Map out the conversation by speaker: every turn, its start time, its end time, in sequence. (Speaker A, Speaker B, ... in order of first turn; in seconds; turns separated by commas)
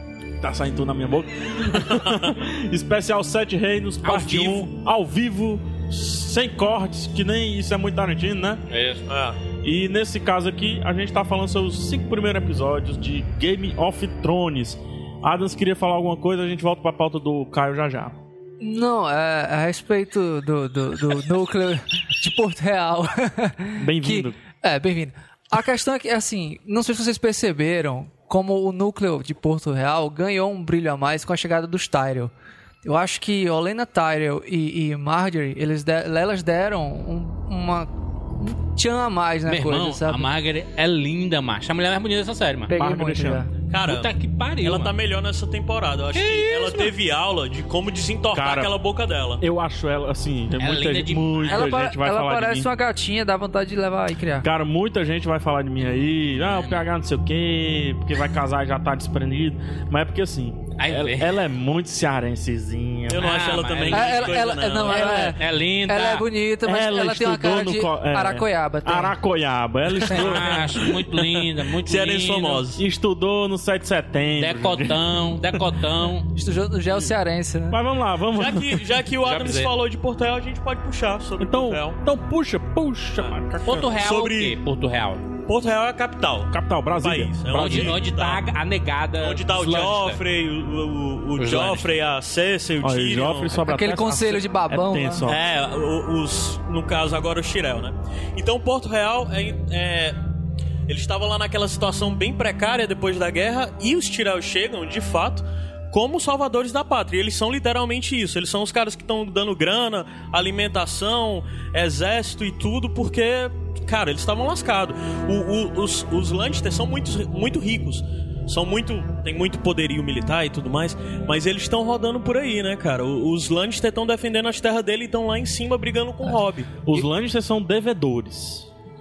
Speaker A: 0.4-8.6, Speaker B: 1.9-2.3, Speaker C: 4.0-4.7, Speaker C: 8.7-9.0, Speaker B: 9.1-9.4, Speaker A: 9.6-18.2, Speaker D: 18.6-32.3, Speaker A: 23.8-24.4, Speaker D: 32.8-40.3, Speaker C: 39.5-42.7, Speaker D: 42.7-43.5, Speaker A: 42.7-43.5, Speaker B: 43.7-49.4, Speaker C: 43.8-45.0, Speaker C: 46.1-46.9, Speaker A: 48.3-48.7, Speaker A: 49.4-52.7, Speaker C: 50.6-51.7, Speaker D: 51.5-54.5, Speaker A: 54.4-63.5, Speaker C: 60.8-61.4, Speaker B: 63.1-65.3, Speaker C: 63.2-66.3, Speaker D: 63.9-69.2, Speaker A: 66.7-71.0, Speaker C: 70.1-72.6, Speaker B: 70.3-70.6, Speaker B: 71.1-72.8, Speaker A: 72.8-75.7, Speaker C: 74.4-76.3, Speaker D: 76.3-77.8, Speaker A: 77.7-78.9, Speaker B: 78.3-82.0, Speaker C: 79.2-79.7, Speaker A: 81.4-83.9, Speaker C: 83.7-85.2, Speaker B: 83.9-84.6, Speaker B: 85.5-88.4, Speaker A: 86.5-88.0, Speaker C: 87.5-90.2, Speaker B: 89.2-93.6, Speaker C: 91.4-91.9, Speaker A: 92.8-95.4, Speaker D: 93.7-95.3, Speaker B: 95.3-100.2, Speaker B: 100.9-126.8, Speaker A: 126.8-128.7